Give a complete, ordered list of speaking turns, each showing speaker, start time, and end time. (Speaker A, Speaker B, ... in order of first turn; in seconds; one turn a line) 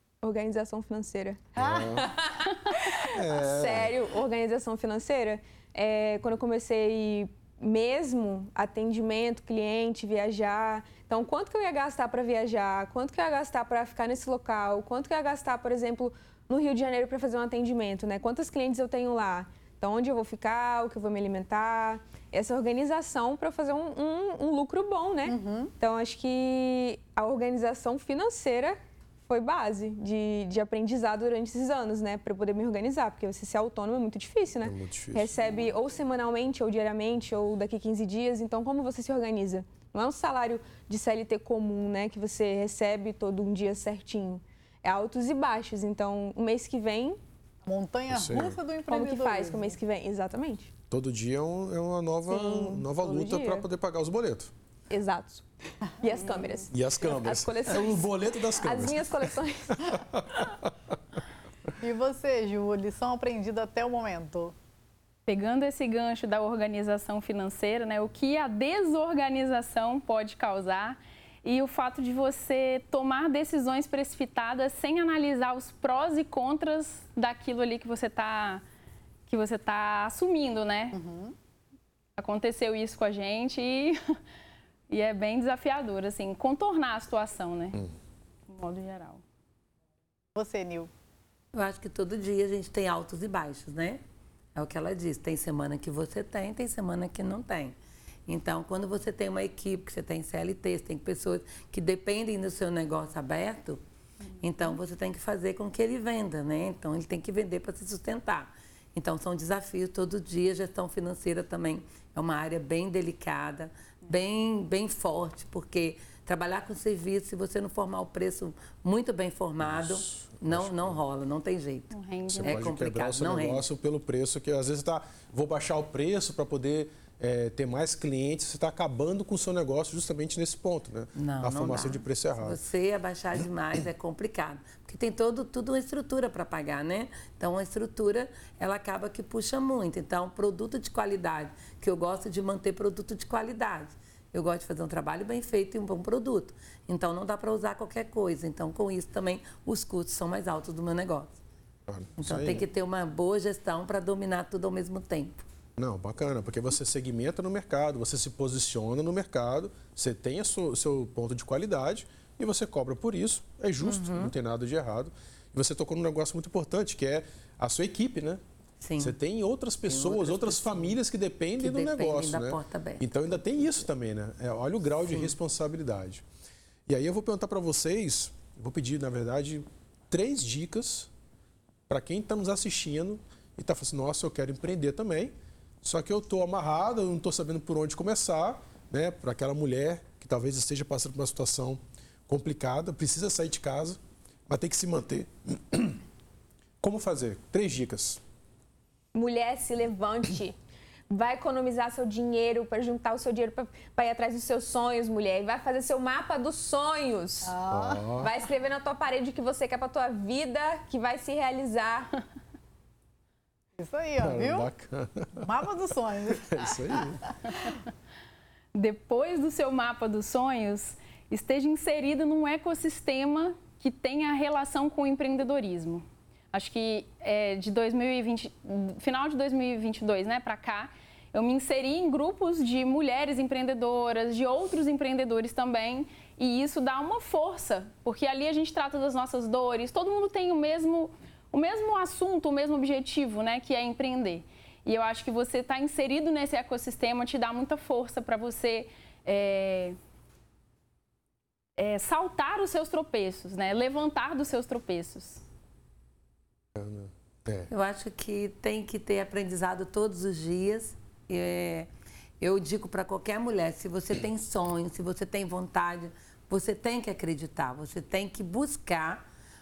Speaker A: 0.2-47.2
Speaker B: 1.6-2.1
Speaker B: 3.0-3.9
Speaker C: 25.2-25.7
Speaker B: 34.6-35.6
Speaker C: 47.6-49.8
Speaker B: 48.1-48.6
Speaker A: 48.9-50.7
Speaker B: 50.9-54.5
Speaker A: 52.3-53.6
Speaker A: 54.9-55.5
Speaker A: 56.0-60.0
Speaker B: 56.7-60.7
Speaker C: 61.8-64.5
Speaker D: 65.3-78.6
Speaker D: 79.3-81.0
Speaker C: 80.9-81.3
Speaker D: 82.2-84.0
Speaker D: 84.9-87.8
Speaker D: 88.5-89.2
Speaker C: 90.3-90.9
Speaker E: 91.5-94.0
Speaker E: 94.5-97.8
Speaker E: 98.3-103.8
Speaker E: 104.4-123.6
Speaker B: 119.6-121.0
Speaker D: 121.9-122.7
Speaker B: 122.3-132.6
Speaker E: 131.2-151.4
Speaker B: 151.9-152.7
Speaker E: 152.2-155.4
Speaker B: 155.8-168.4
Speaker E: 163.8-164.3
Speaker E: 168.8-169.2
Speaker B: 169.0-176.2
Speaker E: 169.8-170.9
Speaker E: 171.6-173.7
Speaker E: 175.1-175.3
Speaker B: 176.9-181.1
Speaker B: 181.9-196.0
Speaker B: 196.8-198.2
Speaker A: 199.1-200.6
Speaker A: 201.1-207.5
Speaker C: 207.4-208.1
Speaker B: 207.7-208.3
Speaker A: 208.2-212.1
Speaker C: 213.8-214.7
Speaker B: 214.2-215.5
Speaker C: 215.4-217.3
Speaker B: 216.5-217.2
Speaker D: 218.7-250.0
Speaker D: 251.8-255.4
Speaker B: 256.7-257.7
Speaker E: 257.7-261.9
Speaker E: 262.4-269.2